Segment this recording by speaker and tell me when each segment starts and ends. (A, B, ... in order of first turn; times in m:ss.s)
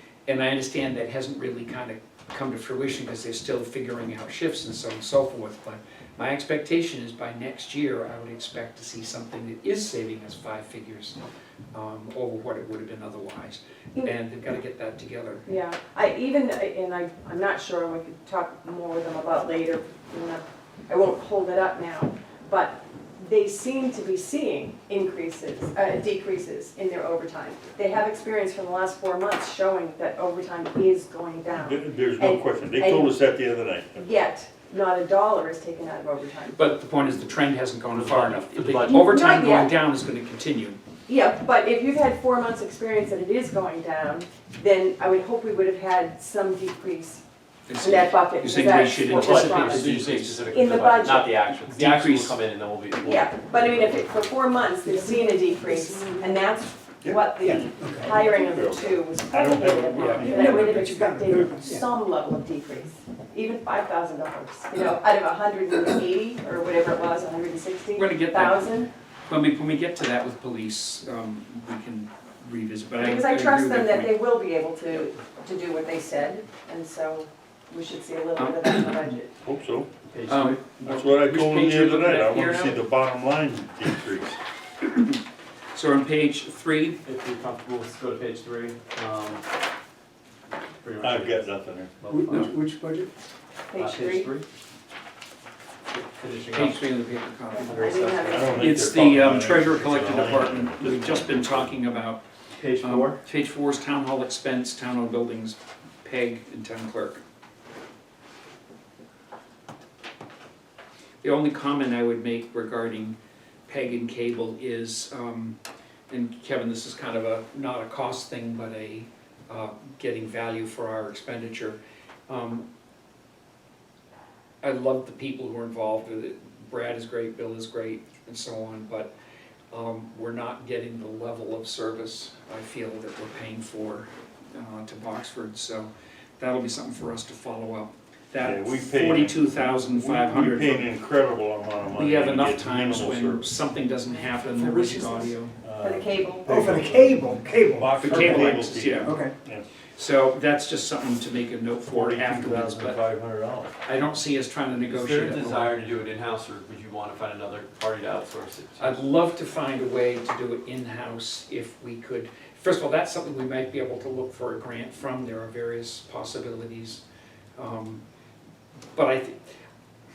0:00.3-0:11.2 A
0:11.7-0:15.4 A
0:15.4-0:33.2 B
0:31.5-0:34.1 C
0:33.9-0:36.6 B
0:36.5-0:40.8 A
0:37.9-0:39.0 D
0:38.8-0:39.8 B
0:41.1-0:47.2 B
0:47.7-0:50.9 A
0:47.8-0:51.4 B
0:49.0-0:54.3 D
0:51.7-0:52.4 A
0:53.0-1:08.9 B
0:57.0-1:01.0 C
0:57.4-0:58.1 E
1:00.2-1:01.9 E
1:07.9-1:08.7 A
1:09.3-1:14.2 A
1:12.9-1:19.4 B
1:18.4-1:19.0 A
1:19.4-1:19.9 C
1:20.1-1:21.0 D
1:20.3-1:22.8 A
1:20.8-1:24.4 C
1:24.8-1:25.2 A
1:25.7-1:27.0 A
1:27.0-1:29.4 D
1:30.8-1:31.5 D
1:31.0-1:31.9 C
1:32.0-1:32.5 D
1:32.1-1:33.1 E
1:33.7-1:34.3 B
1:33.7-1:34.4 D
1:35.9-1:36.9 D
1:36.5-1:38.0 A
1:37.5-1:38.6 B
1:37.7-1:38.7 D
1:38.3-1:41.7 C
1:38.6-1:42.2 A
1:42.6-1:43.2 D
1:42.8-1:47.2 A
1:51.2-1:53.2 A
1:53.7-1:55.6 A
1:56.1-2:02.6 A
2:04.6-2:09.1 A
2:09.7-2:20.9 A
2:18.4-2:23.5 C
2:22.0-2:25.5 A
2:24.6-2:25.1 E
2:25.6-2:29.7 C
2:25.8-2:26.5 B
2:26.5-2:29.3 E
2:28.0-2:29.2 A
2:29.9-2:33.0 A
2:31.9-2:33.7 C
2:33.8-2:35.7 A
2:34.8-2:39.0 D
2:38.8-2:47.0 A
2:47.6-2:48.0 A
2:48.9-2:49.4 A